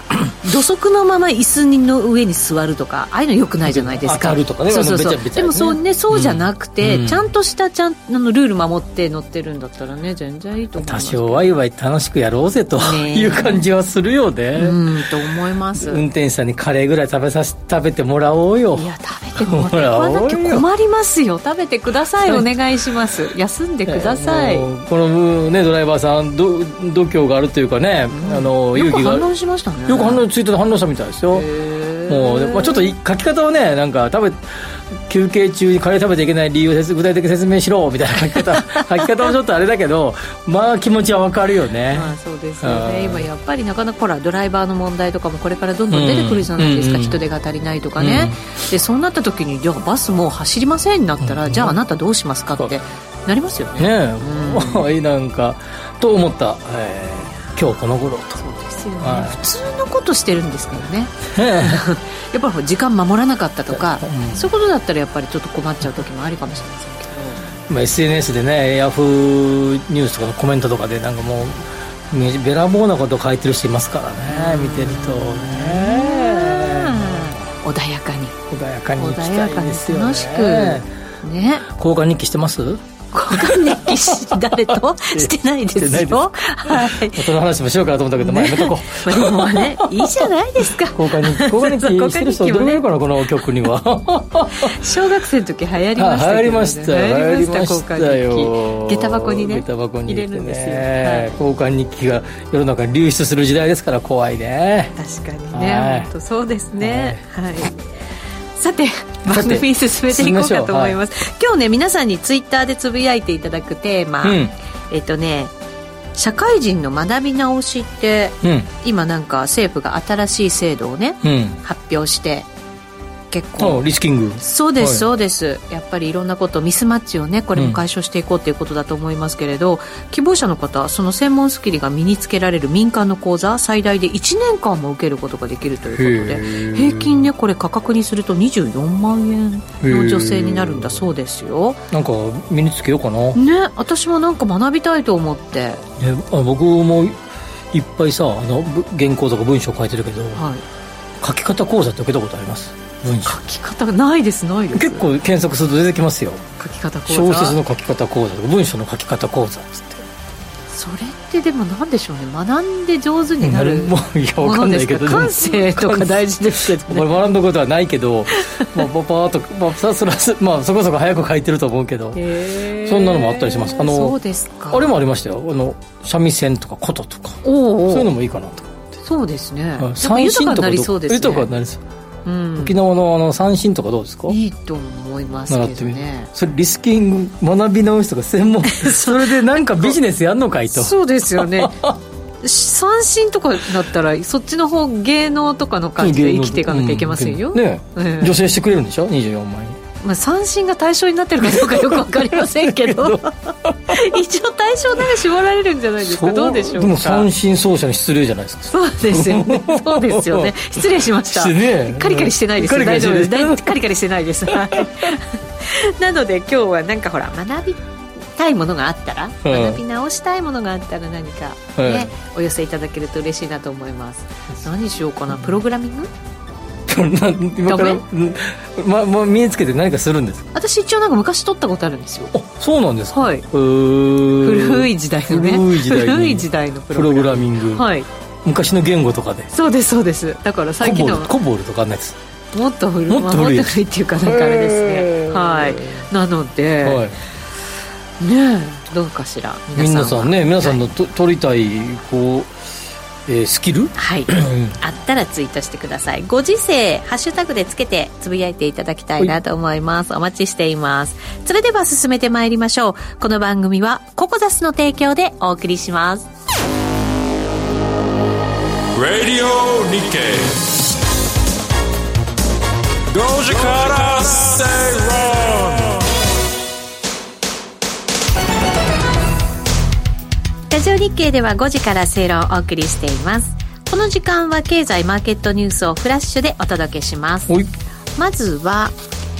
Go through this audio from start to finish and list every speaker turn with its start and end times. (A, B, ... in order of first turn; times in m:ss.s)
0:00.4-0:11.5 A
0:03.6-0:07.3 B
0:10.8-0:15.1 B
0:12.8-0:13.6 A
0:14.6-0:16.0 A
0:15.7-0:20.7 B
0:18.7-0:24.7 A
0:23.9-0:29.3 B
0:28.1-0:30.2 A
0:29.9-0:31.5 B
0:31.3-0:32.9 A
0:32.1-0:43.3 B
0:41.9-0:54.9 A
0:45.9-0:47.2 B
0:48.0-0:48.4 B
0:51.2-0:51.8 B
0:53.8-0:58.4 B
0:58.4-1:07.6 A
0:59.0-0:59.4 B
1:01.2-1:01.8 B
1:03.7-1:04.5 B
1:07.7-1:17.4 B
1:14.3-1:18.4 A
1:18.5-1:20.9 B
1:19.0-1:21.7 A
1:21.7-1:24.5 B
1:23.1-1:27.2 A
1:25.1-1:30.3 B
1:28.2-1:32.8 A
1:30.8-1:34.8 B
1:34.6-1:41.4 A
1:36.0-1:44.9 B
1:45.0-1:47.7 A
1:45.5-1:46.1 B
1:46.8-1:47.2 B
1:48.6-1:55.5 A
1:49.3-1:51.0 B
1:54.2-1:54.6 B
1:56.2-2:02.5 A
1:58.4-1:58.7 B
2:01.2-2:01.6 B
2:03.3-2:03.8 A
2:03.6-2:05.1 B
2:04.4-2:21.8 A
2:07.6-2:07.8 B
2:15.9-2:17.3 B
2:19.8-2:21.0 B
2:21.9-2:23.4 B
2:23.4-2:25.8 A
2:26.0-2:27.2 B
2:27.7-2:30.4 B
2:30.4-2:30.6 A
2:31.2-2:33.4 B
2:33.2-2:35.0 A
2:34.7-2:36.4 B
2:36.6-2:37.6 A
2:37.1-2:40.1 B
2:40.7-2:47.1 A
2:43.4-2:52.2 B
2:48.4-2:48.7 A
2:52.2-2:54.9 A
2:52.8-2:54.2 B
2:54.7-2:58.9 B
2:57.4-2:58.1 A
2:59.0-3:01.5 A
2:59.8-3:01.8 B
3:02.2-3:02.7 A
3:02.6-3:04.4 B
3:04.3-3:06.3 A
3:05.5-3:12.0 B
3:08.7-3:10.0 A
3:10.7-3:11.8 A
3:12.4-3:18.4 A
3:16.0-3:19.8 B
3:20.0-3:23.3 A
3:21.4-3:24.1 B
3:23.9-3:27.3 A
3:26.0-3:33.8 B
3:28.7-3:37.8 A
3:34.5-3:35.0 B
3:38.4-3:46.1 A
3:39.4-3:39.8 B
3:41.8-3:42.1 B
3:46.9-3:50.5 B
3:47.7-3:48.0 A
3:50.5-3:52.3 A
3:52.3-3:57.9 B
3:53.1-3:53.4 A
3:54.4-3:58.1 A
3:58.4-3:59.5 B
3:59.5-4:01.3 A
4:00.8-4:02.2 B
4:02.5-4:07.0 A
4:03.1-4:06.1 B
4:06.8-4:07.2 B
4:08.2-4:10.8 A
4:09.8-4:12.5 B
4:13.3-4:14.8 B
4:14.0-4:26.3 A
4:28.9-4:30.6 C
4:33.1-4:36.0 C
4:40.7-4:47.5 A
4:48.2-4:49.0 A